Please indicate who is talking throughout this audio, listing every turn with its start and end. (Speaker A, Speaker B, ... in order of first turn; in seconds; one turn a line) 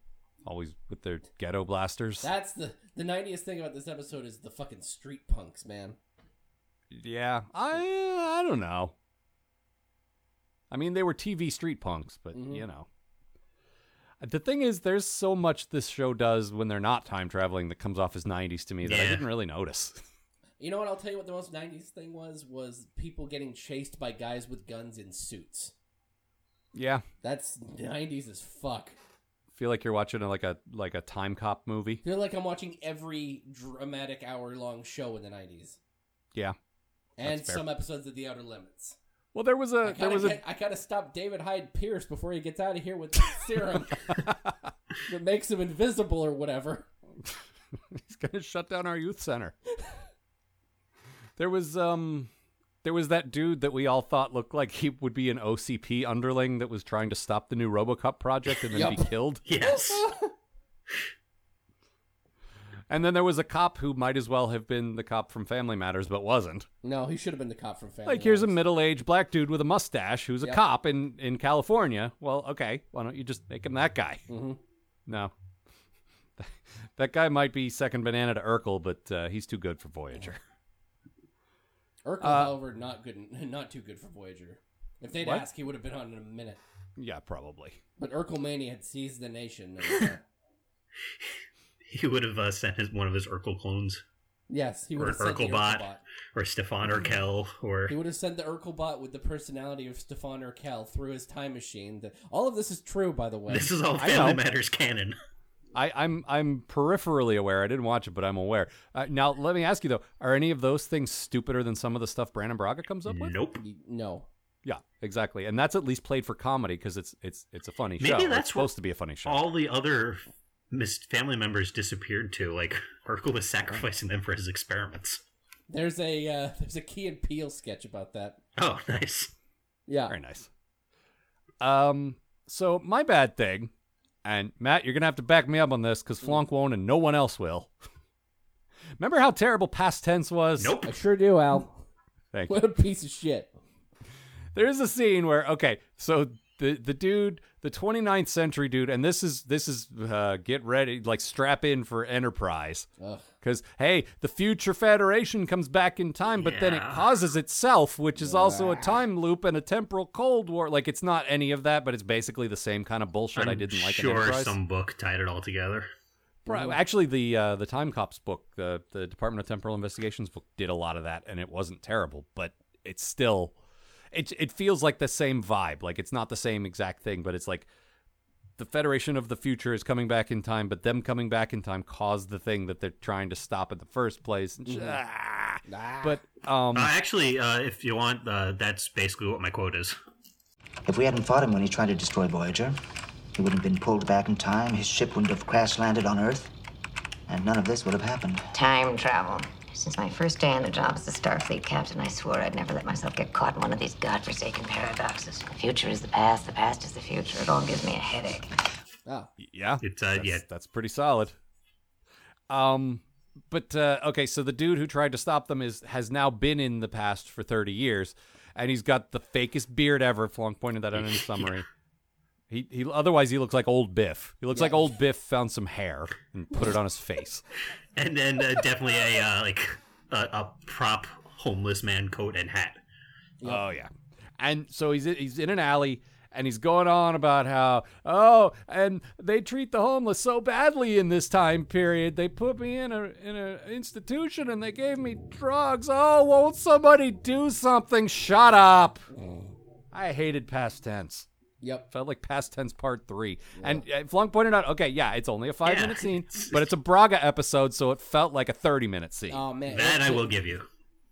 Speaker A: 0.4-2.3
Speaker B: 2.2-6.0
Speaker A: 6.9-8.9
Speaker A: 10.7-12.9
Speaker B: 12.3-12.7
Speaker A: 14.2-20.0
Speaker C: 18.8-19.2
Speaker B: 20.6-25.7
Speaker A: 26.7-27.1
Speaker B: 27.2-29.0
Speaker A: 29.5-32.0
Speaker B: 32.0-35.8
Speaker B: 37.2-39.0
Speaker A: 37.2-37.7
Speaker A: 39.3-40.4
Speaker B: 39.8-44.2
Speaker A: 44.1-44.7
Speaker B: 45.0-46.9
Speaker A: 47.9-49.5
Speaker A: 51.4-52.3
Speaker A: 52.8-59.4
Speaker B: 58.7-59.1
Speaker C: 59.5-60.1
Speaker B: 59.6-60.3
Speaker A: 62.9-66.7
Speaker B: 66.8-68.6
Speaker A: 68.1-74.2
Speaker B: 74.3-74.6
Speaker A: 75.1-75.3
Speaker A: 76.4-80.4
Speaker B: 82.0-86.6
Speaker A: 82.2-82.6
Speaker A: 87.0-87.8
Speaker B: 88.0-90.2
Speaker C: 91.9-94.0
Speaker B: 94.5-96.0
Speaker C: 95.0-98.0
Speaker B: 97.9-103.7
Speaker C: 103.5-105.2
Speaker A: 104.0-104.4
Speaker A: 105.7-113.4
Speaker C: 113.1-113.6
Speaker B: 113.6-114.3
Speaker A: 114.6-119.5
Speaker C: 118.0-118.7
Speaker C: 119.2-125.2
Speaker B: 125.7-128.4
Speaker C: 128.6-129.3
Speaker B: 129.9-130.2
Speaker A: 130.1-130.5
Speaker A: 131.6-133.7
Speaker A: 134.2-137.7
Speaker A: 139.0-140.8
Speaker C: 140.6-141.0
Speaker B: 140.8-141.8
Speaker A: 142.3-142.6
Speaker B: 142.5-143.5
Speaker A: 144.5-152.9
Speaker B: 153.0-153.3
Speaker A: 153.4-164.6
Speaker C: 156.4-157.1
Speaker B: 158.2-158.9
Speaker C: 163.3-165.9
Speaker A: 166.5-173.6
Speaker B: 166.5-166.8
Speaker A: 174.1-177.7
Speaker A: 178.6-186.9
Speaker B: 184.7-185.0
Speaker B: 185.7-186.2
Speaker C: 186.7-190.0
Speaker D: 190.9-192.7
Speaker D: 193.4-196.4
Speaker D: 197.3-198.4
Speaker E: 198.5-208.5
Speaker B: 209.1-209.3
Speaker A: 209.4-211.4
Speaker C: 209.8-210.4
Speaker A: 212.5-221.7
Speaker C: 221.0-221.6
Speaker A: 222.5-227.4
Speaker B: 224.5-224.8
Speaker C: 228.0-232.8
Speaker A: 233.4-249.1
Speaker A: 249.9-251.3
Speaker B: 251.6-251.9
Speaker A: 251.9-259.4
Speaker B: 253.6-253.8
Speaker C: 255.7-256.7
Speaker B: 259.3-260.3
Speaker C: 259.7-260.6